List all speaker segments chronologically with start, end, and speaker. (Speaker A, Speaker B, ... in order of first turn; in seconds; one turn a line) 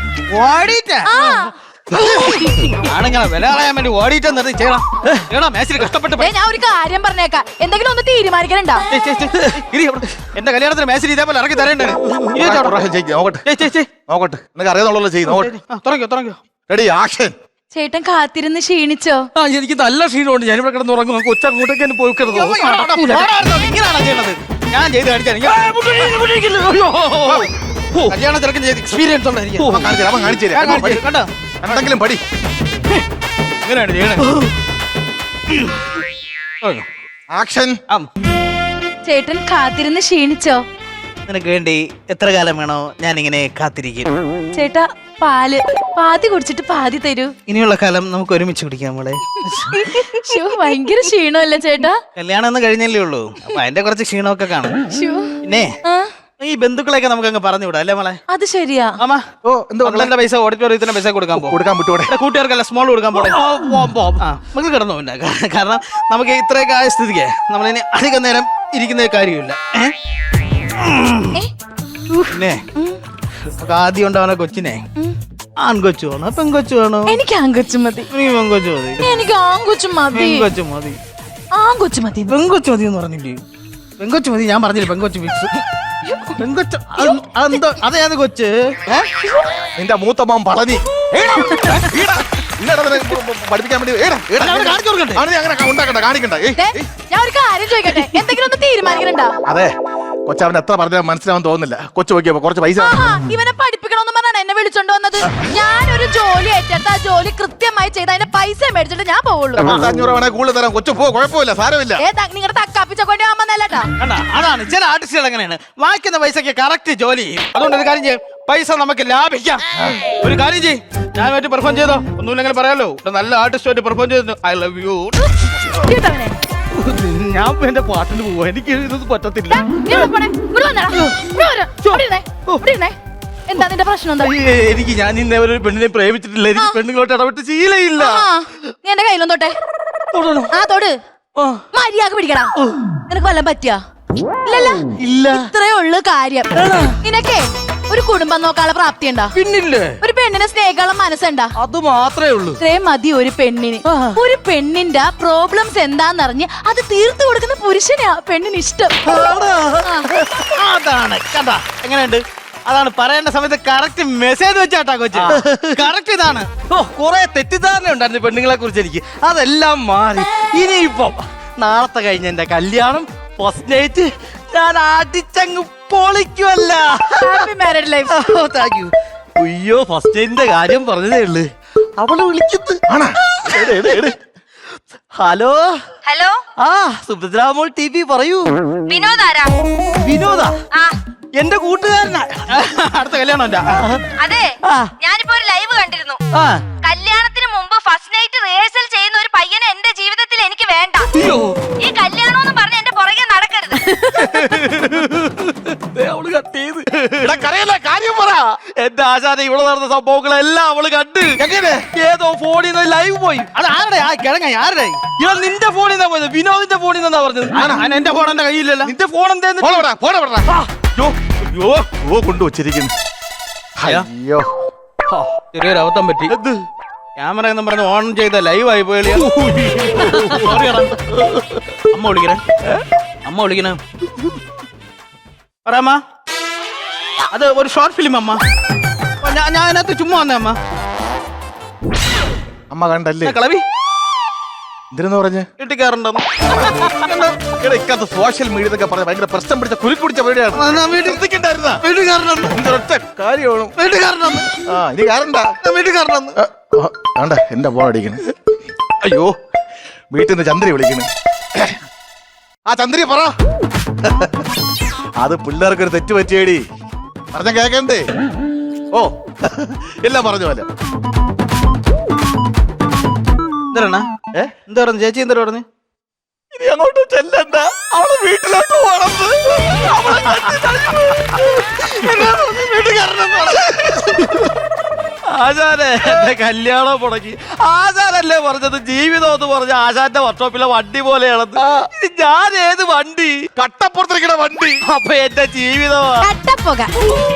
Speaker A: 0.3-1.1
Speaker B: 1.1-2.7
Speaker A: 2.0-6.3
Speaker B: 6.2-8.8
Speaker A: 8.9-12.8
Speaker C: 12.4-13.5
Speaker A: 13.5-13.9
Speaker C: 14.1-15.5
Speaker A: 15.3-16.4
Speaker C: 16.7-17.3
Speaker B: 17.7-19.3
Speaker D: 19.4-23.3
Speaker A: 22.2-26.3
Speaker D: 25.4-28.2
Speaker A: 27.0-27.5
Speaker A: 28.0-29.9
Speaker D: 29.6-29.9
Speaker C: 29.7-31.1
Speaker A: 30.5-31.3
Speaker C: 31.6-32.2
Speaker A: 33.6-34.4
Speaker C: 37.3-37.8
Speaker B: 39.0-40.6
Speaker A: 41.3-44.1
Speaker B: 44.5-47.3
Speaker A: 47.5-49.7
Speaker B: 49.5-52.0
Speaker A: 52.2-54.8
Speaker B: 54.9-56.1
Speaker A: 55.4-55.7
Speaker A: 56.4-58.2
Speaker B: 58.3-59.0
Speaker A: 59.0-59.2
Speaker C: 59.4-60.1
Speaker A: 59.8-61.6
Speaker C: 61.3-62.1
Speaker A: 62.1-63.5
Speaker D: 63.2-64.2
Speaker A: 64.2-69.9
Speaker A: 70.8-71.3
Speaker A: 72.3-72.6
Speaker A: 73.6-74.8
Speaker A: 75.6-77.2
Speaker B: 77.1-78.1
Speaker A: 78.1-79.0
Speaker B: 79.0-80.5
Speaker A: 80.1-81.0
Speaker B: 81.5-82.4
Speaker A: 82.3-83.4
Speaker A: 84.0-85.6
Speaker B: 86.0-86.4
Speaker A: 86.4-89.1
Speaker B: 87.0-87.6
Speaker C: 89.8-96.9
Speaker A: 91.4-91.9
Speaker A: 94.4-95.2
Speaker B: 96.6-99.4
Speaker C: 99.5-99.7
Speaker C: 100.3-103.1
Speaker B: 102.8-109.7
Speaker C: 109.6-112.0
Speaker B: 112.0-113.9
Speaker A: 114.0-119.6
Speaker A: 120.2-125.6
Speaker B: 125.7-126.4
Speaker D: 126.7-130.1
Speaker B: 129.5-133.0
Speaker B: 133.5-134.3
Speaker D: 134.2-138.3
Speaker B: 138.0-139.6
Speaker D: 140.1-140.5
Speaker B: 140.5-140.9
Speaker D: 141.4-141.6
Speaker B: 141.7-142.5
Speaker B: 143.1-143.8
Speaker B: 144.4-149.3
Speaker D: 145.0-145.5
Speaker D: 146.5-146.9
Speaker D: 149.3-150.0
Speaker B: 150.0-151.5
Speaker D: 151.6-152.6
Speaker B: 152.6-159.0
Speaker D: 153.9-154.2
Speaker D: 159.1-160.4
Speaker B: 159.8-160.1
Speaker A: 160.4-166.5
Speaker D: 165.2-165.9
Speaker D: 166.7-177.5
Speaker B: 177.1-178.2
Speaker D: 178.1-182.8
Speaker C: 182.9-183.2
Speaker D: 183.4-184.2
Speaker D: 185.2-185.8
Speaker E: 186.1-186.4
Speaker D: 186.6-188.6
Speaker E: 188.9-189.6
Speaker D: 190.0-190.6
Speaker E: 190.7-191.0
Speaker D: 191.4-192.5
Speaker A: 192.5-193.8
Speaker D: 193.7-194.1
Speaker E: 194.2-196.2
Speaker D: 194.7-194.9
Speaker D: 196.3-196.7
Speaker E: 196.8-201.1
Speaker D: 201.2-201.7
Speaker E: 201.8-204.0
Speaker D: 204.1-207.4
Speaker C: 207.2-208.6
Speaker D: 208.7-211.4
Speaker C: 211.4-211.9
Speaker D: 211.9-213.5
Speaker A: 213.6-215.1
Speaker D: 215.2-217.7
Speaker A: 217.5-219.8
Speaker C: 217.6-217.9
Speaker C: 219.6-220.5
Speaker A: 221.4-221.9
Speaker C: 222.0-222.9
Speaker C: 223.8-224.5
Speaker A: 225.4-226.3
Speaker D: 226.3-226.6
Speaker A: 227.2-229.3
Speaker D: 229.2-230.5
Speaker A: 229.9-232.4
Speaker A: 233.2-233.8
Speaker A: 235.7-236.0
Speaker A: 237.3-238.4
Speaker A: 239.2-240.6
Speaker C: 242.7-243.4
Speaker A: 243.2-243.6
Speaker C: 244.9-245.5
Speaker A: 245.6-247.1
Speaker C: 246.5-251.8
Speaker A: 250.5-251.2
Speaker A: 251.8-252.7
Speaker C: 252.5-253.8
Speaker A: 253.8-254.6
Speaker C: 254.7-255.5
Speaker A: 255.6-256.4
Speaker C: 256.4-258.2
Speaker C: 259.0-259.3
Speaker C: 260.1-261.8
Speaker C: 262.7-263.3
Speaker C: 264.1-264.5
Speaker C: 265.2-266.6
Speaker C: 267.3-268.1
Speaker C: 268.9-270.7
Speaker A: 273.7-274.1
Speaker A: 274.7-275.6
Speaker D: 276.6-284.6
Speaker A: 282.0-283.8
Speaker D: 285.3-293.5
Speaker C: 293.6-294.8
Speaker D: 294.9-296.3
Speaker B: 296.2-296.9